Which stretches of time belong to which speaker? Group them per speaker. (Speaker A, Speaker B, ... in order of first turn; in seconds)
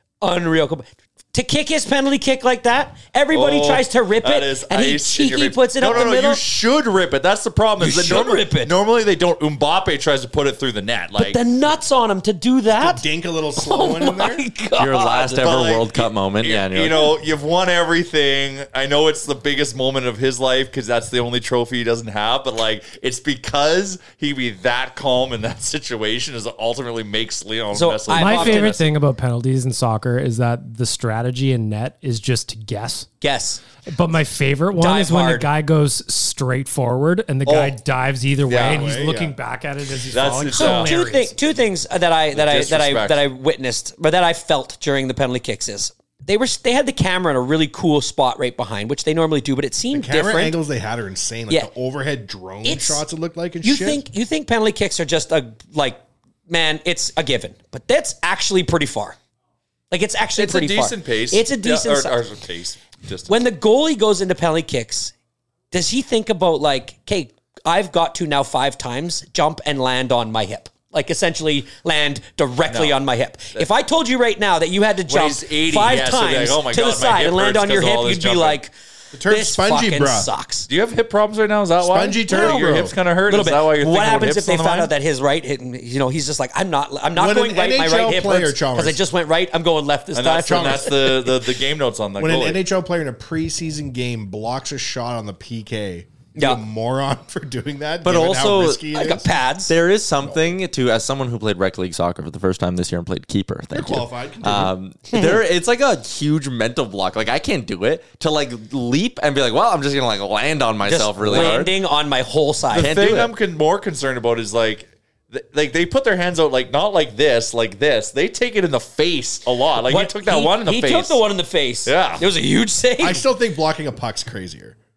Speaker A: 0.2-6.4, 7.8-8.7, 11.2-13.0, 13.6-15.5, 27.7-28.8, 33.2-33.6, 34.8-35.5, 40.5-50.6, 52.6-53.0, 53.6-59.2, 59.9-62.2, 63.3-65.1, 65.7-78.7, 79.3-80.7, 82.3-82.7, 83.3-91.3, 96.4-96.6, 98.4-99.7, 105.1-105.4, 110.8-112.9, 119.9-123.2
Speaker B: 3.3-11.4, 15.4-28.9, 37.5-37.8, 38.5-39.0, 40.1-41.0, 42.3-43.2, 60.4-63.4, 72.7-73.0, 75.1-78.6, 80.7-84.9, 90.1-92.6, 111.3-111.6, 112.7-121.2, 121.8-122.2
Speaker C: 12.7-14.4, 38.6-39.4, 49.9-54.0, 79.1-80.3, 81.8-83.0, 87.2-89.0, 90.5-90.9, 92.2-99.3, 103.7-104.7, 123.0-124.8
Speaker D: 14.8-17.1, 98.0-98.8, 99.7-111.7, 112.8-113.3
Speaker E: 28.1-33.1, 33.9-41.4